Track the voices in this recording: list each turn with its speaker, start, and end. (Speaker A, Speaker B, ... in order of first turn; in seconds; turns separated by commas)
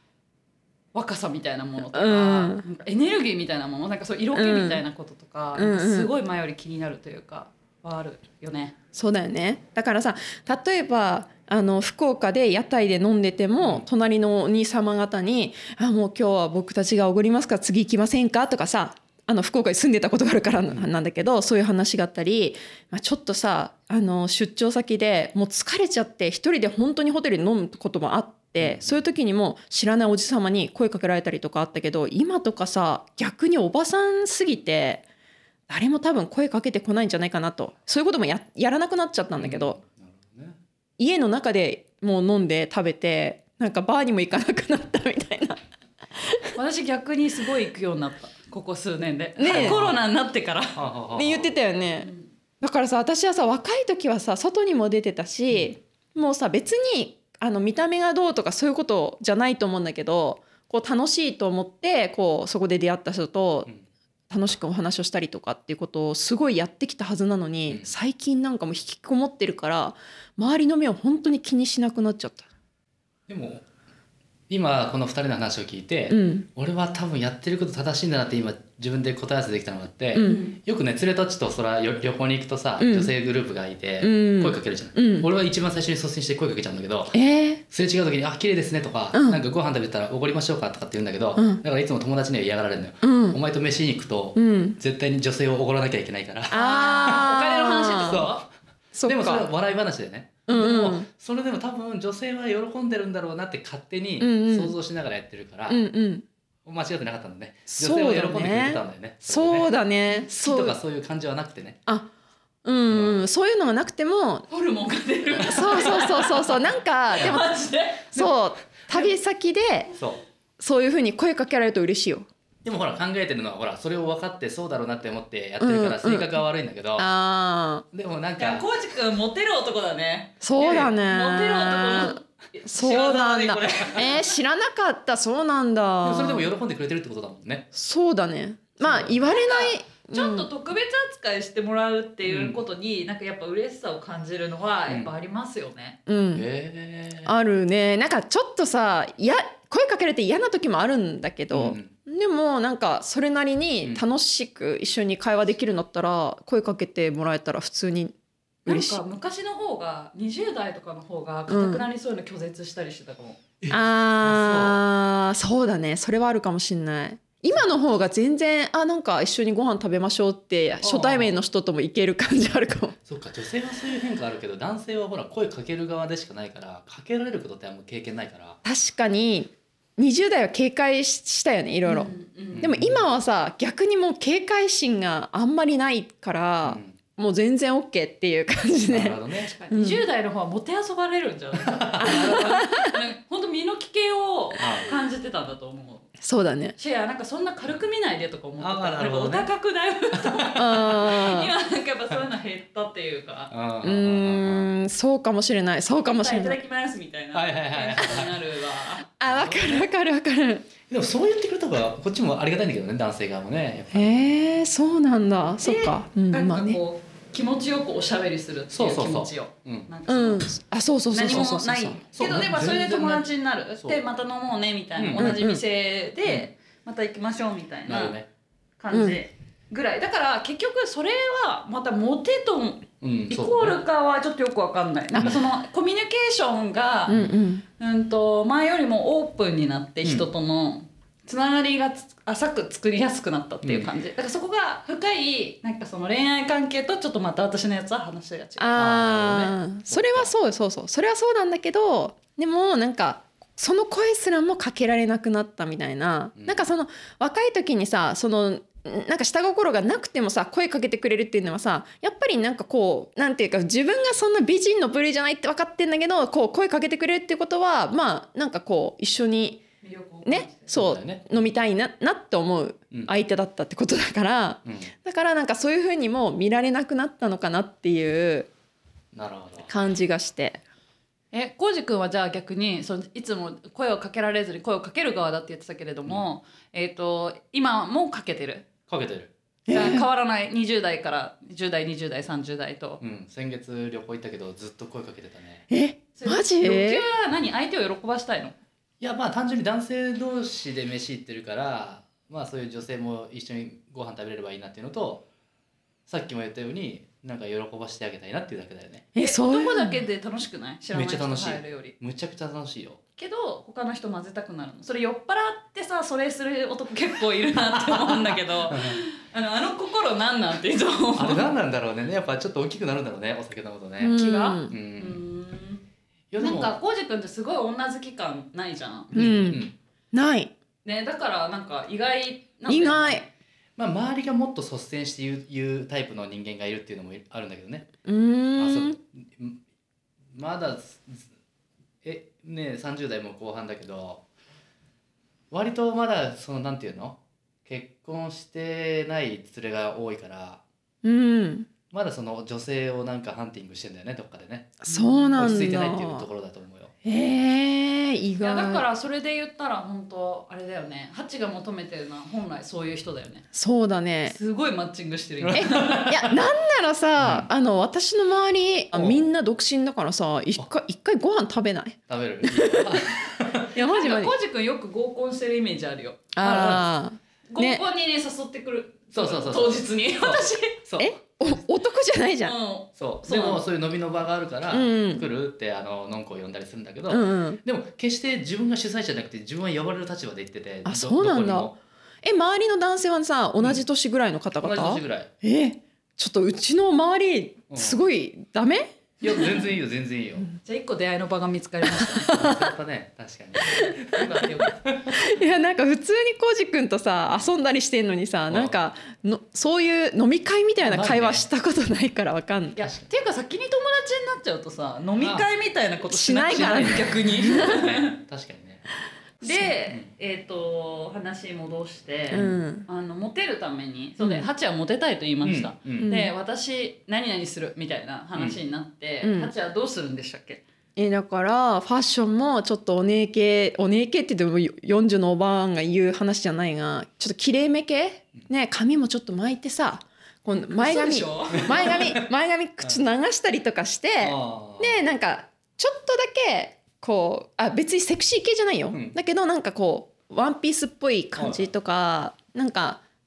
Speaker A: 0.9-8.7, Speaker B: 1.9-2.6, Speaker B: 4.3-4.8, Speaker B: 5.5-6.1, Speaker B: 8.9-35.0, Speaker C: 13.6-13.8, Speaker C: 28.6-29.0, Speaker B: 35.7-39.8, Speaker C: 39.4-40.6, Speaker B: 41.0-45.6, Speaker B: 46.2-46.5, Speaker A: 46.5-50.8, Speaker B: 49.4-49.8, Speaker C: 49.4-50.0, Speaker C: 50.7-51.6, Speaker B: 51.1-52.1, Speaker A: 52.0-52.3, Speaker B: 52.6-63.7, Speaker B: 64.3-72.5, Speaker C: 73.3-73.6, Speaker C: 74.5-87.2, Speaker B: 76.1-76.5, Speaker B: 80.1-80.4, Speaker A: 80.2-80.5, Speaker B: 82.8-83.1, Speaker B: 84.0-85.3, Speaker B: 87.1-87.6, Speaker C: 87.7-97.3, Speaker B: 89.1-89.4, Speaker B: 91.3-91.6, Speaker B: 93.0-93.4, Speaker B: 94.3-94.8, Speaker B: 96.5-98.2, Speaker A: 96.5-98.4, Speaker C: 98.0-98.5, Speaker B: 98.9-99.5, Speaker C: 99.0-105.8, Speaker B: 100.5-101.1, Speaker B: 104.2-104.7, Speaker B: 105.7-106.2, Speaker C: 106.6-109.7, Speaker B: 107.7-110.8, Speaker C: 110.3-111.8, Speaker B: 112.6-114.5, Speaker C: 112.9-113.2, Speaker A: 114.5-118.3, Speaker C: 115.4-115.9, Speaker B: 115.4-117.5, Speaker B: 118.1-119.9, Speaker C: 119.9-120.2, Speaker B: 120.6-122.3, Speaker C: 122.6-127.1, Speaker B: 125.6-126.4, Speaker B: 127.0-127.8, Speaker C: 127.9-128.6, Speaker A: 128.4-134.3, Speaker B: 130.4-136.5, Speaker C: 136.0-137.7, Speaker B: 137.7-140.5, Speaker C: 138.8-139.2, Speaker A: 139.2-146.0, Speaker C: 142.2-142.6, Speaker B: 146.1-146.4, Speaker C: 146.3-147.3, Speaker B: 147.2-159.0, Speaker C: 151.5-151.9, Speaker A: 158.7-163.4, Speaker B: 161.5-161.8, Speaker C: 163.6-164.8, Speaker B: 163.7-172.9, Speaker C: 170.8-171.3, Speaker C: 173.1-178.6, Speaker B: 178.6-190.0, Speaker A: 181.8-182.7, Speaker C: 182.5-183.0, Speaker C: 186.6-186.9, Speaker C: 188.9-189.5, Speaker A: 189.5-196.1, Speaker C: 191.6-192.6, Speaker B: 192.0-192.9, Speaker C: 194.6-194.9, Speaker B: 196.2-196.8, Speaker A: 196.8-203.5, Speaker C: 198.6-199.5, Speaker C: 200.1-200.7, Speaker B: 200.6-201.5, Speaker C: 203.5-204.7, Speaker B: 203.8-206.6, Speaker A: 206.2-209.1, Speaker C: 207.3-208.3, Speaker B: 209.2-210.7, Speaker C: 209.2-209.9, Speaker C: 210.9-214.2, Speaker B: 213.9-216.8, Speaker A: 215.6-220.5, Speaker C: 218.7-219.9, Speaker B: 220.1-222.0, Speaker A: 221.1-228.2, Speaker C: 221.3-224.0, Speaker C: 225.0-225.3, Speaker B: 225.2-225.6, Speaker C: 227.9-228.3, Speaker A: 228.8-237.2, Speaker B: 228.9-229.2, Speaker C: 233.0-233.8, Speaker B: 237.1-237.6, Speaker A: 237.8-248.8, Speaker C: 243.6-243.9, Speaker B: 248.6-269.6, Speaker C: 248.8-250.3, Speaker C: 256.4-256.7, Speaker A: 269.8-270.8, Speaker B: 270.2-278.5, Speaker C: 270.7-271.5, Speaker C: 274.6-274.9, Speaker C: 279.1-279.7, Speaker B: 279.7-280.6, Speaker A: 281.3-288.7, Speaker C: 288.9-289.3, Speaker B: 289.7-290.0, Speaker A: 289.7-293.0, Speaker C: 293.0-295.6, Speaker B: 295.7-297.0, Speaker A: 296.1-298.6, Speaker C: 299.0-305.2, Speaker C: 306.1-309.1, Speaker B: 309.1-310.0, Speaker A: 309.2-311.9, Speaker C: 310.9-313.0, Speaker A: 313.2-321.5, Speaker C: 317.7-319.0, Speaker C: 321.1-325.2, Speaker B: 324.0-324.7, Speaker A: 324.1-325.8, Speaker C: 326.3-326.7, Speaker A: 326.4-329.6, Speaker B: 329.1-330.5, Speaker C: 329.1-329.7, Speaker A: 330.8-333.2, Speaker B: 332.7-333.2, Speaker C: 333.8-337.9, Speaker B: 338.0-338.9, Speaker C: 338.6-339.6, Speaker C: 340.3-341.3, Speaker C: 342.0-344.2, Speaker C: 345.5-350.6, Speaker B: 351.0-351.7, Speaker C: 351.9-354.8, Speaker B: 354.8-356.2, Speaker A: 354.9-355.5, Speaker C: 355.3-356.9, Speaker B: 357.0-358.8, Speaker A: 358.4-363.4, Speaker B: 363.5-364.4, Speaker A: 364.2-366.4, Speaker C: 365.4-366.3, Speaker B: 365.5-373.1, Speaker C: 367.2-367.5, Speaker C: 368.9-369.2, Speaker C: 372.1-373.7, Speaker B: 373.7-374.3, Speaker A: 373.8-376.8, Speaker B: 376.3-377.8, Speaker A: 377.5-380.8, Speaker C: 379.1-381.3, Speaker B: 381.0-382.5, Speaker A: 382.4-383.6, Speaker C: 383.0-391.8, Speaker B: 384.7-385.3, Speaker B: 387.1-387.6, Speaker B: 390.8-398.9, Speaker C: 394.6-395.3, Speaker C: 397.7-398.0, Speaker C: 399.2-400.5, Speaker A: 400.6-402.4, Speaker B: 402.0-402.7, Speaker C: 402.3-405.3, Speaker A: 403.6-404.8, Speaker B: 405.1-412.8, Speaker C: 408.5-408.7, Speaker C: 410.8-411.4, Speaker A: 412.8-418.2, Speaker C: 412.8-413.1, Speaker C: 415.2-415.5, Speaker B: 416.1-417.8, Speaker C: 416.4-418.8, Speaker B: 419.4-419.7, Speaker A: 419.4-430.6, Speaker C: 422.3-422.6, Speaker B: 422.3-422.9, Speaker B: 424.2-424.5, Speaker C: 425.4-426.1, Speaker B: 426.0-426.3, Speaker B: 429.2-429.5, Speaker B: 430.9-453.0, Speaker A: 440.7-442.1, Speaker C: 441.5-442.2, Speaker C: 444.2-445.0, Speaker C: 451.4-451.7